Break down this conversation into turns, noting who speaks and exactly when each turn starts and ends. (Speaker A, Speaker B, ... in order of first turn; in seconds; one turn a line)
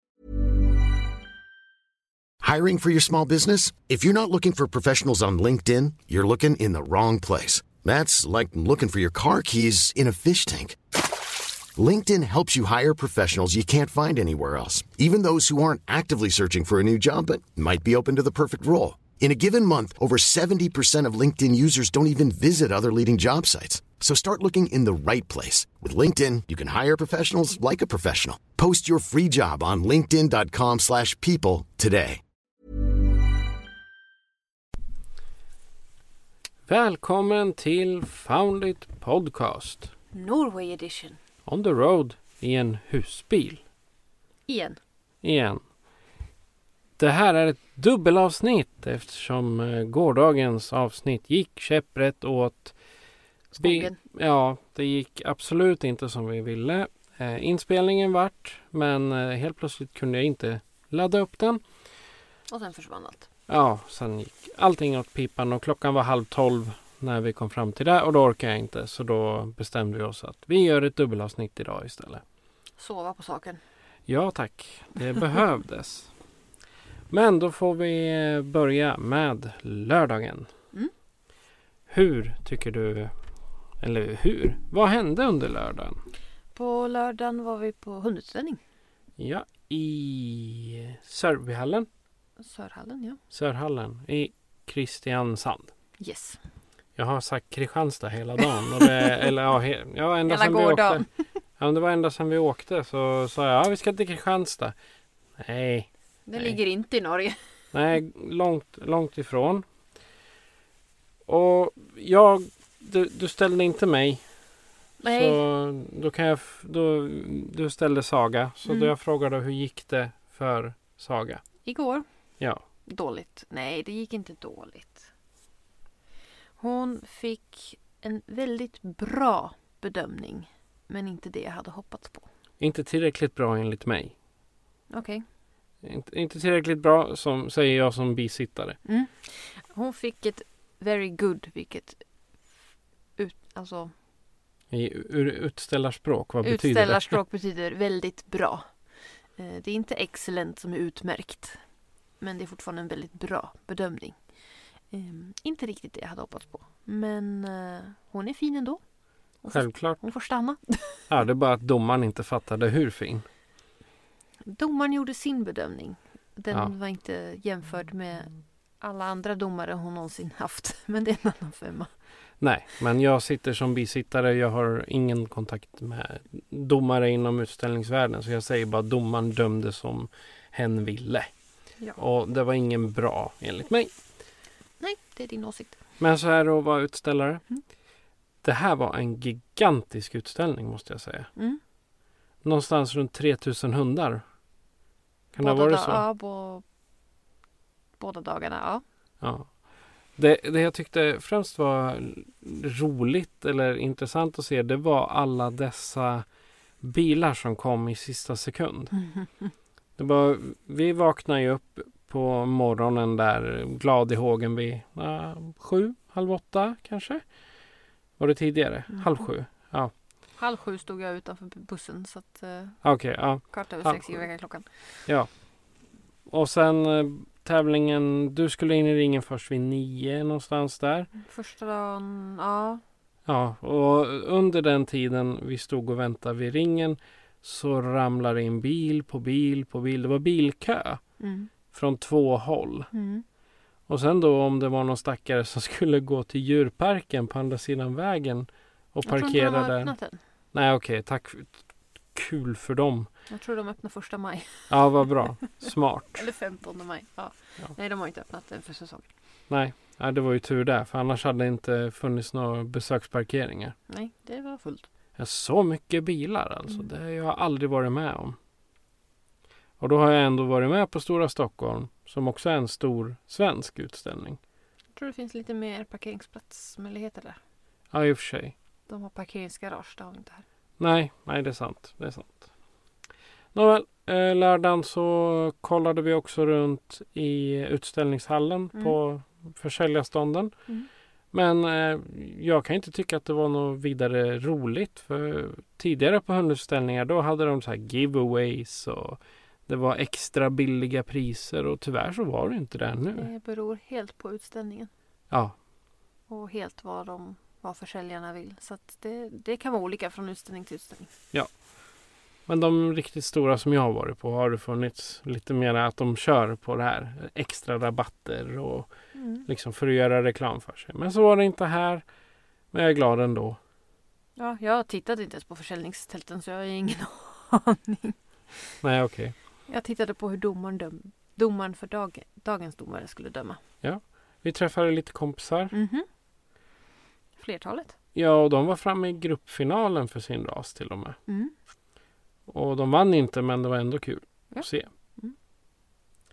Speaker A: 2.4-10.8
Speaker A: 11.8-32.2
Speaker B: 36.7-39.9
Speaker C: 40.1-41.2
Speaker B: 41.5-43.6
Speaker C: 44.5-44.8
Speaker B: 45.2-45.6
Speaker B: 47.0-52.8
Speaker C: 53.5-54.0
Speaker B: 53.6-61.6
Speaker C: 62.5-63.3
Speaker B: 63.5-72.2
Speaker C: 72.8-73.6
Speaker B: 74.1-76.1
Speaker B: 77.1-80.5
Speaker B: 81.9-83.1
Speaker B: 83.8-86.0
Speaker C: 86.5-88.6
Speaker B: 89.2-91.9
Speaker C: 92.4-93.2
Speaker B: 93.3-95.7
Speaker C: 96.0-96.4
Speaker B: 97.0-101.1
Speaker C: 98.8-99.2
Speaker C: 100.3-101.1
Speaker B: 101.6-104.8
Speaker B: 105.4-106.6
Speaker C: 106.3-107.4
Speaker B: 107.7-109.7
Speaker B: 111.3-114.2
Speaker C: 115.0-115.4
Speaker B: 115.0-121.4
Speaker C: 118.7-118.9
Speaker C: 121.6-122.1
Speaker C: 122.9-125.1
Speaker C: 126.6-132.3
Speaker B: 132.6-134.2
Speaker C: 134.9-135.2
Speaker B: 135.8-138.8
Speaker C: 138.8-142.0
Speaker C: 143.2-143.9
Speaker B: 144.7-147.2
Speaker C: 146.4-148.8
Speaker C: 149.3-151.6
Speaker C: 152.2-154.2
Speaker C: 154.9-158.8
Speaker C: 159.4-161.0
Speaker B: 159.5-160.0
Speaker B: 161.1-163.3
Speaker C: 164.5-171.9
Speaker B: 172.4-181.3
Speaker B: 182.0-183.9
Speaker C: 184.8-185.8
Speaker B: 186.0-187.4
Speaker B: 188.4-191.3
Speaker B: 192.4-194.2
Speaker B: 195.3-196.1
Speaker C: 195.4-196.6
Speaker C: 198.0-198.8
Speaker B: 199.2-199.6
Speaker B: 200.2-206.3
Speaker B: 206.8-209.0
Speaker C: 209.1-209.5
Speaker B: 210.0-217.2
Speaker B: 218.2-219.9
Speaker C: 218.9-219.2
Speaker C: 220.4-222.8
Speaker B: 222.8-224.3
Speaker C: 223.4-225.1
Speaker B: 226.3-231.1
Speaker C: 231.2-232.8
Speaker B: 233.3-241.0
Speaker C: 241.2-241.5
Speaker B: 241.7-242.9
Speaker C: 242.9-243.2
Speaker B: 243.9-249.9
Speaker C: 249.1-250.2
Speaker B: 250.5-253.1
Speaker C: 253.3-255.0
Speaker B: 254.7-256.2
Speaker C: 256.1-259.1
Speaker B: 259.5-263.8
Speaker C: 263.9-264.9
Speaker B: 265.2-268.4
Speaker B: 269.8-274.4
Speaker C: 275.0-277.4
Speaker B: 277.9-278.6
Speaker C: 278.9-280.4
Speaker B: 280.8-282.5
Speaker B: 283.5-290.5
Speaker B: 291.3-303.3
Speaker C: 303.1-304.9
Speaker B: 305.3-305.6
Speaker C: 306.3-311.1
Speaker B: 312.5-318.9
Speaker C: 319.1-319.5
Speaker B: 319.4-322.0
Speaker B: 322.7-323.6
Speaker C: 324.4-328.7
Speaker B: 328.8-329.4
Speaker C: 329.7-333.6
Speaker B: 333.8-335.7
Speaker C: 335.7-336.1
Speaker C: 337.4-337.9
Speaker B: 338.1-341.2
Speaker C: 341.3-341.5
Speaker B: 342.5-344.9
Speaker C: 344.5-345.4